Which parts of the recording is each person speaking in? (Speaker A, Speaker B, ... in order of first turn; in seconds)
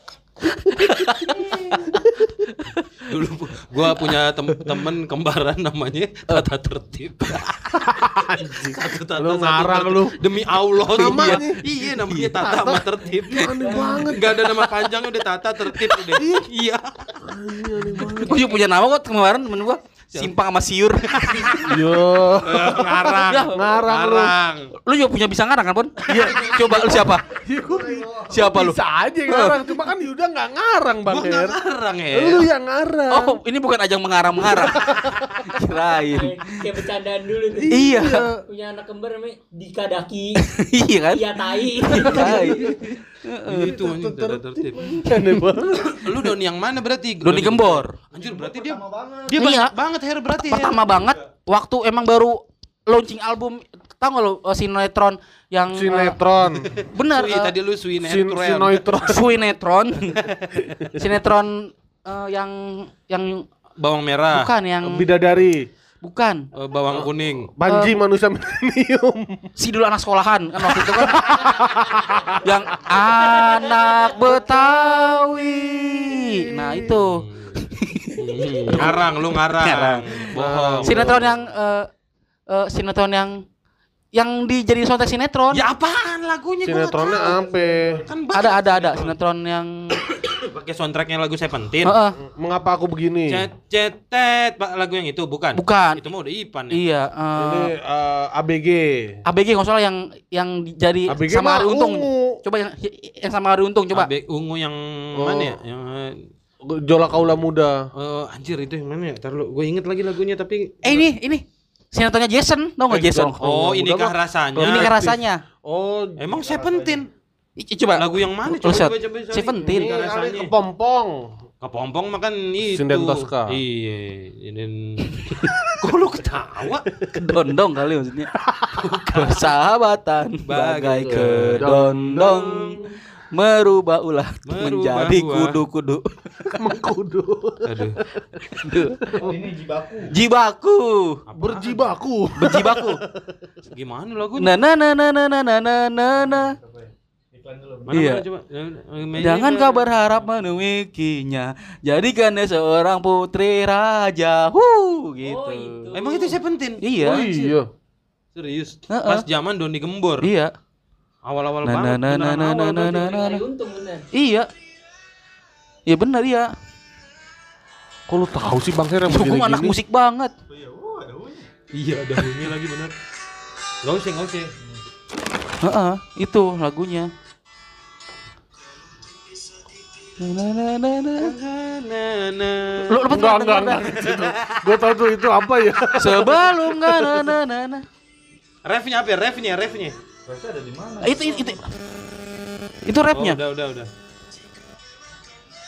Speaker A: 0.7-2.8, 11.0-12.3, 18.0-21.8, 23.2-23.6, 24.8-27.2, 28.3-29.6, 33.1-34.9, 35.4-36.4, 37.7-38.2, 40.5-43.7, 45.1-45.5, 47.2-47.9, 49.3-49.7, 50.4-56.2, 56.9-57.5, 59.0-60.1, 60.9-63.5, 64.3-65.1, 66.0-66.4, 67.6-68.0, 69.6-71.5, 72.4-79.0, 79.5-80.2, 80.8-81.9, 82.5-83.4, 84.1-85.7, 88.3-90.0, 91.8-92.2, 95.5-96.0, 96.7-97.7, 99.2-104.1, 110.8-113.4, 114.6-115.4, 117.6-119.9, 125.1-125.9, 127.1-128.3, 129.1-136.6, 138.5-139.1, 140.1-141.2, 142.4-143.0, 144.4-146.5, 147.9-148.2, 149.2-156.0, 156.8-157.5, 158.9-159.2, 160.2-160.5, 161.6-163.4, 164.1-164.5, 165.9-166.5, 169.1-170.3, 175.6-177.1, 180.2-181.3, 182.9-184.0, 186.0-187.8, 191.0-191.7, 192.8-193.4
Speaker B: 0.7-2.2, 7.7-10.2, 10.8-11.6, 12.3-14.5, 16.1-16.5, 17.2-18.4, 21.6-24.3, 26.1-31.6, 32.1-33.4, 34.4-35.6, 37.6-38.4, 42.0-42.9, 43.5-46.3, 55.7-56.8, 58.0-59.2, 64.8-65.7, 66.9-69.5, 70.7-72.5, 78.7-79.0, 80.3-81.3, 86.6-88.1, 92.2-93.4, 97.3-99.2, 101.1-102.4, 105.2-105.6, 106.6-107.8, 112.9-116.9, 119.6-121.3, 122.7-123.6, 128.5-129.0, 131.0-132.9, 136.6-139.4, 141.3-143.1, 157.0-157.7, 168.1-169.8, 183.1-187.3
Speaker C: 3.0-7.6, 8.6-17.2, 21.2-21.7, 22.3-24.7, 31.1-32.5, 42.0-44.9, 45.9-50.8, 56.8-59.0, 60.1-60.7, 63.8-64.5, 66.5-67.5, 76.6-77.7, 78.2-81.2, 85.5-87.5, 88.0-89.1, 90.1-92.0, 93.3-96.8, 103.9-106.3, 107.9-111.0, 113.4-115.2, 116.2-117.1, 118.0-120.5, 121.6-126.9, 128.8-129.4, 130.4-131.7, 134.5-135.6, 137.7-138.0, 141.3-141.9, 143.7-144.6, 147.9-149.8, 155.9-156.8, 158.3-160.3, 161.2-163.1, 171.7-172.9, 173.8-174.5, 181.2-183.1, 184.0-184.6, 188.6-189.9, 193.1-193.9
Speaker D: 13.6-13.9, 36.0-40.5, 41.1-42.5, 155.2-156.3, 162.8-164.1
Speaker E: 27.5-28.4, 48.1-49.4, 50.9-51.2, 87.2-88.0, 116.7-117.0, 139.2-140.1, 146.2-148.0, 170.5-171.5, 190.2-191.2